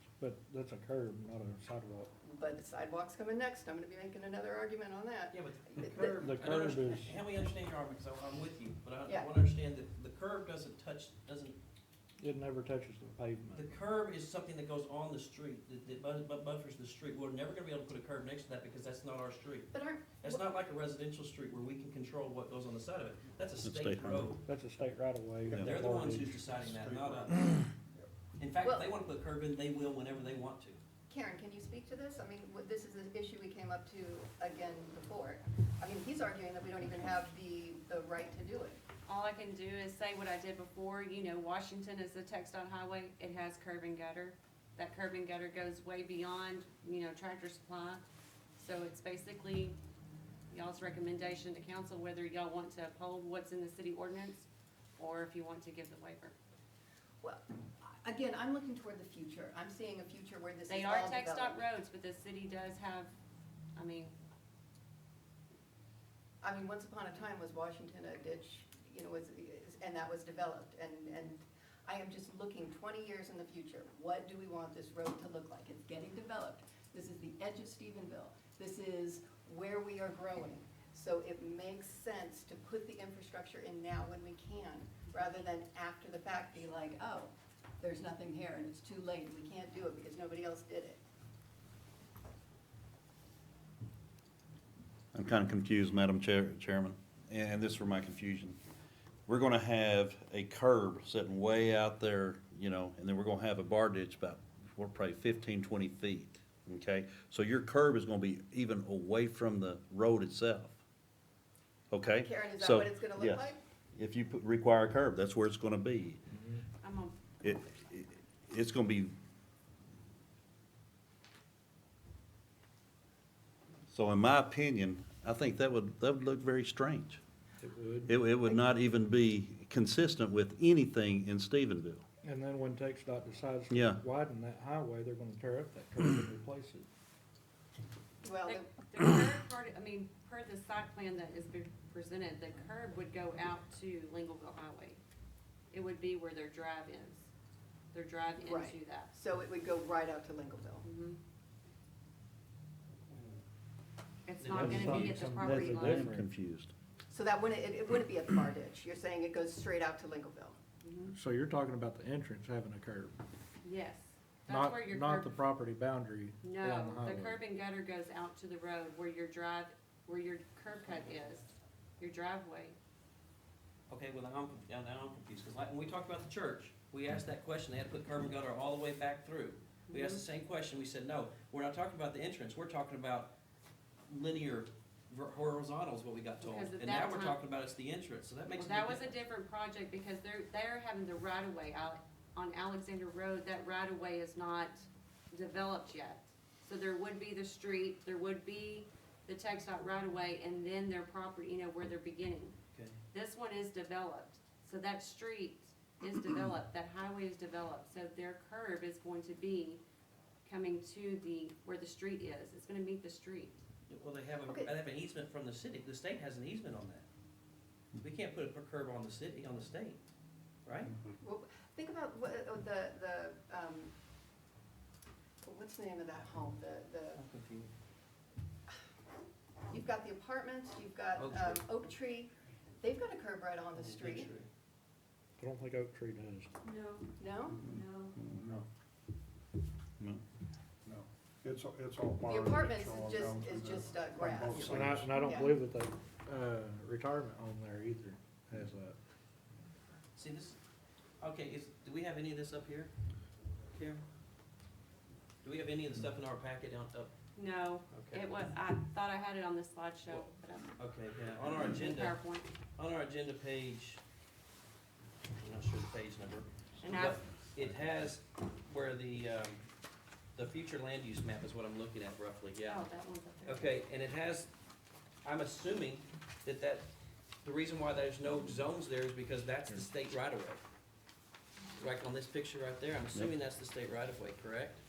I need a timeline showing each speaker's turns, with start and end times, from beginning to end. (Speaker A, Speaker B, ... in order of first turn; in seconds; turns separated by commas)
Speaker A: 0.2-2.1, Speaker B: 2.2-6.3, Speaker C: 5.3-11.6, Speaker A: 5.9-7.2, Speaker B: 9.1-9.3, Speaker A: 12.2-13.7, Speaker C: 13.5-24.4, Speaker B: 19.7-20.4, Speaker D: 23.6-24.3, Speaker A: 24.4-26.5, Speaker E: 25.5-25.7, Speaker C: 25.6-27.4, Speaker E: 26.5-27.7, Speaker C: 28.4-30.8, Speaker B: 28.6-28.9, Speaker B: 31.1-38.8, Speaker F: 39.1-48.0, Speaker F: 48.6-49.8, Speaker F: 50.5-56.3, Speaker B: 57.2-61.6, Speaker F: 60.7-63.1, Speaker F: 63.8-64.1, Speaker B: 66.4-91.0, Speaker D: 95.1-98.6, Speaker D: 99.3-110.8, Speaker D: 111.9-116.2, Speaker B: 112.2-113.6, Speaker F: 116.8-117.1, Speaker D: 117.4-119.1, Speaker D: 123.9-127.2, Speaker A: 127.6-128.1, Speaker D: 128.1-132.0, Speaker A: 132.2-136.9, Speaker D: 133.7-134.0, Speaker B: 138.2-138.7, Speaker F: 138.4-145.0, Speaker F: 145.7-147.3, Speaker F: 147.9-149.1, Speaker B: 148.4-150.8, Speaker F: 150.8-151.2, Speaker F: 154.2-156.1, Speaker C: 154.4-155.3, Speaker A: 154.5-156.3, Speaker D: 154.8-156.7, Speaker B: 157.1-160.6, Speaker F: 160.8-161.2, Speaker A: 161.1-163.1, Speaker F: 163.6-165.4, Speaker A: 164.5-167.4, Speaker F: 166.4-172.8, Speaker C: 170.9-171.3, Speaker C: 173.9-183.3, Speaker F: 179.9-180.2, Speaker C: 184.1-189.1, Speaker F: 186.4-187.4, Speaker F: 188.5-202.6, Speaker F: 203.1-209.8, Speaker F: 210.4-213.6, Speaker C: 213.9-217.1, Speaker B: 214.4-214.7, Speaker C: 218.0-220.0, Speaker C: 220.6-220.9, Speaker B: 221.2-223.9, Speaker B: 225.4-227.2, Speaker C: 227.2-227.7, Speaker B: 229.7-234.3, Speaker C: 231.2-231.6, Speaker C: 233.8-234.5, Speaker A: 235.4-236.5, Speaker F: 236.6-238.2, Speaker B: 237.2-237.6, Speaker E: 238.3-238.7, Speaker E: 240.8-245.2, Speaker B: 242.2-245.6, Speaker A: 244.5-249.0, Speaker C: 250.2-250.6, Speaker C: 251.2-252.9, Speaker C: 253.7-254.0, Speaker C: 255.4-257.1, Speaker F: 257.3-260.8, Speaker C: 257.9-258.3, Speaker C: 260.1-262.2, Speaker F: 261.7-262.5, Speaker C: 262.7-264.0, Speaker C: 265.4-269.6, Speaker F: 266.8-267.2, Speaker C: 270.4-272.9, Speaker F: 272.6-273.8, Speaker C: 273.4-274.5, Speaker C: 275.2-276.9, Speaker C: 277.4-280.6, Speaker C: 281.8-284.8